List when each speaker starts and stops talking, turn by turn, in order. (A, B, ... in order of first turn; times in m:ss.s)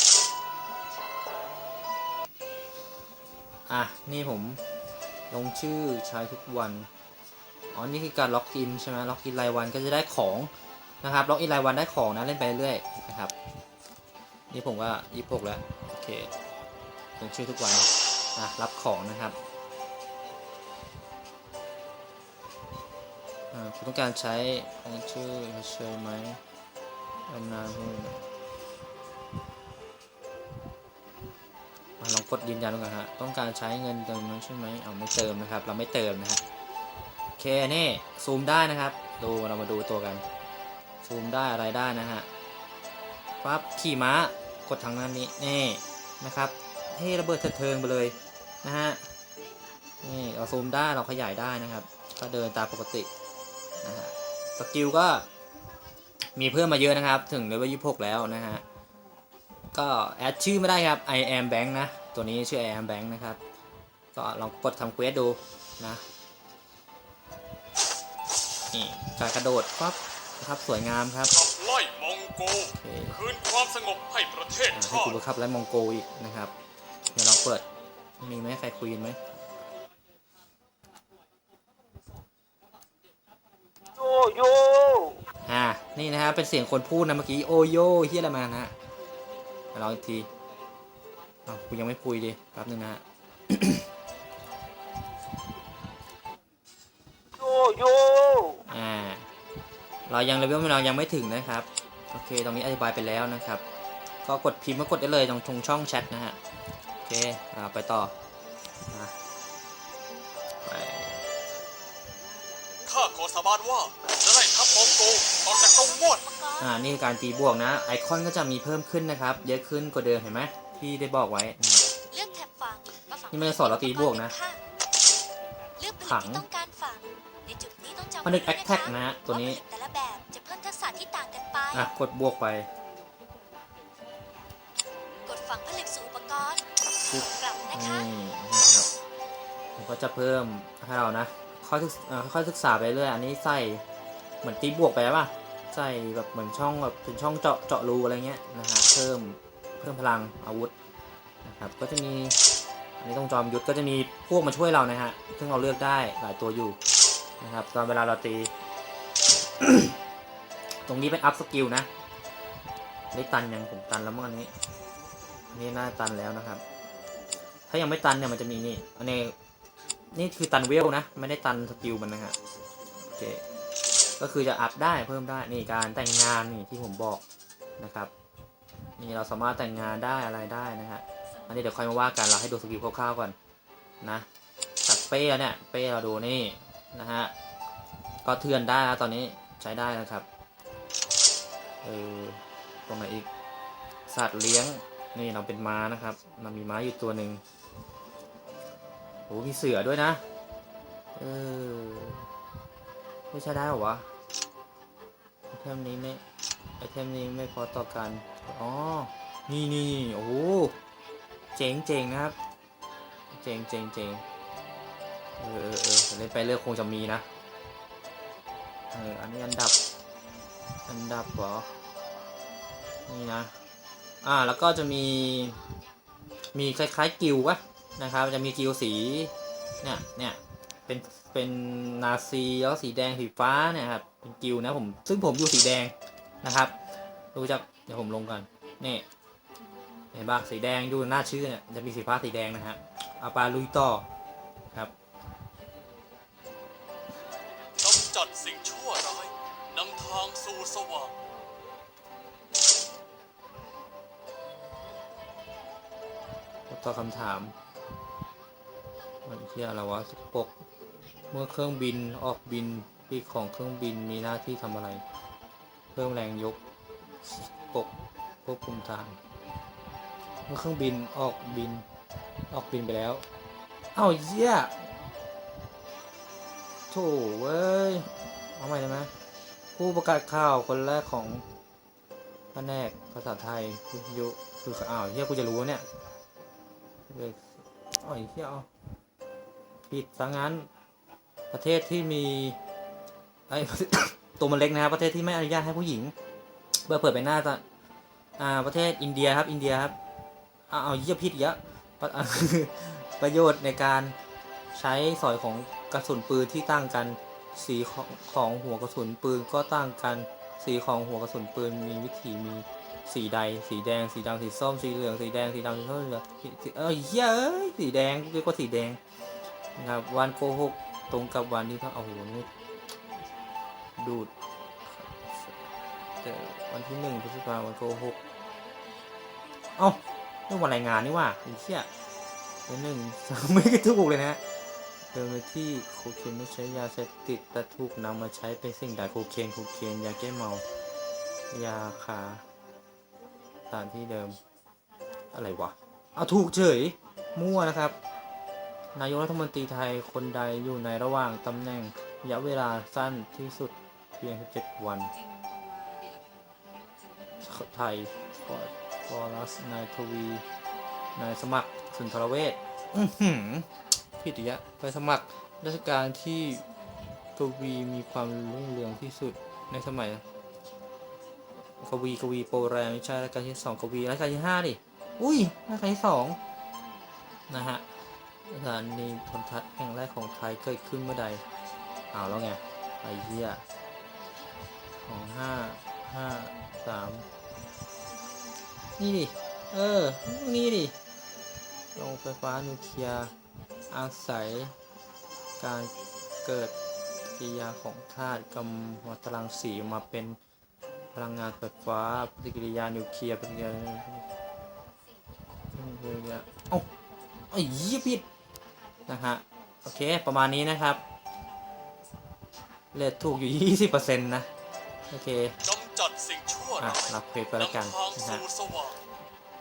0:03.7-0:04.6 A
0:05.3-0:06.9 A
0:07.7-0:10.5 A
0:11.0-0:13.3 A
0:14.5-0:16.3 A
0:17.2-0:19.4 A
0:23.5-0:26.4 A
0:27.3-0:28.2 A
0:32.0-0:36.4 A
0:37.4-0:40.2 A
0:41.0-0:42.3 A
0:43.4-0:49.0 A
0:50.0-0:53.1 A
0:53.8-0:55.3 A
0:56.4-0:58.6 A
0:59.7-1:03.4 A
1:04.1-1:06.0 A
1:08.7-1:11.3 A
1:11.3-1:15.2 B
1:12.7-1:13.2 A
1:14.7-1:16.5 A
1:17.1-1:17.6 A
1:18.2-1:19.2 A
1:24.0-1:25.2 C
1:25.4-1:28.7 A
1:29.7-1:30.3 A
1:31.5-1:33.8 A
1:37.4-1:38.6 C
1:38.7-1:39.3 A
1:40.1-1:43.6 A
1:44.2-1:46.4 A
1:47.0-1:48.1 A
1:48.9-1:49.1 A
1:50.6-1:51.2 A
1:52.8-1:56.2 B
1:55.5-1:56.7 D
1:56.6-2:01.8 A
2:02.1-2:04.6 D
2:03.3-2:04.3 A
2:05.8-2:11.9 D
2:06.0-2:06.4 A
2:08.2-2:09.6 A
2:11.7-2:12.7 A
2:15.2-2:18.1 D
2:17.1-2:18.9 A
2:19.8-2:23.8 A
2:24.4-2:30.7 A
2:31.4-2:32.4 A
2:33.0-2:36.8 A
2:37.4-2:38.5 A
2:39.6-2:39.9 A
2:40.8-2:41.9 A
2:43.1-2:44.5 A
2:45.5-2:46.6 A
2:47.7-2:49.3 A
2:50.1-2:52.4 A
2:53.0-2:53.4 A
2:54.2-2:57.2 A
2:57.8-2:58.1 A
2:59.0-3:03.4 A
3:04.0-3:04.2 A
3:04.8-3:07.3 A
3:08.2-3:10.2 A
3:11.8-3:13.3 A
3:14.1-3:17.4 A
3:19.3-3:20.2 A
3:21.2-3:22.3 A
3:23.3-3:24.1 A
3:25.5-3:26.2 A
3:26.8-3:30.8 A
3:31.6-3:32.4 A
3:33.3-3:34.2 A
3:35.4-3:37.2 A
3:38.9-3:39.8 A
3:40.9-3:41.7 A
3:43.1-3:43.5 A
3:44.2-3:45.6 A
3:46.5-3:56.7 A
3:57.3-3:59.0 A
4:00.1-4:04.0 A
4:07.8-4:11.1 B
4:16.7-4:17.5 A
4:19.2-4:20.5 A
4:21.3-4:25.0 A
4:25.9-4:26.6 A
4:27.2-4:27.9 A
4:28.4-4:29.2 A
4:30.5-4:31.8 A
4:32.5-4:33.2 A
4:33.9-4:34.8 A
4:36.9-4:39.1 A
4:39.7-4:41.4 A
4:42.5-4:45.8 A
4:47.1-4:48.7 A
4:49.9-4:50.7 A
4:51.5-4:52.6 A
4:53.5-4:56.1 A
4:56.8-4:57.6 A
4:58.4-5:00.0 A
5:00.7-5:04.2 A
5:04.7-5:19.0 A
5:19.8-5:22.5 A
5:24.0-5:24.3 A
5:24.8-5:25.6 A
5:26.2-5:28.2 A
5:29.8-5:31.9 A
5:32.7-5:34.4 A
5:35.1-5:40.6 A
5:41.5-5:42.4 A
5:43.7-5:44.4 A
5:45.3-5:48.0 A
5:48.9-5:55.1 A
5:57.4-6:00.4 A
6:01.2-6:03.7 A
6:04.2-6:06.6 A
6:07.4-6:10.2 A
6:11.8-6:16.4 A
6:17.5-6:17.8 A
6:18.5-6:21.4 A
6:22.1-6:23.6 A
6:25.0-6:27.3 A
6:29.0-6:31.0 A
6:32.0-6:33.3 A
6:33.9-6:34.7 A
6:35.6-6:35.9 A
6:36.4-6:36.7 A
6:37.3-6:40.4 A
6:41.1-6:44.2 A
6:45.7-6:46.9 A
6:47.5-6:48.2 A
6:49.1-6:51.0 A
6:52.9-6:54.5 A
6:55.1-6:55.6 A
6:55.6-6:59.0 B
6:56.8-6:58.4 A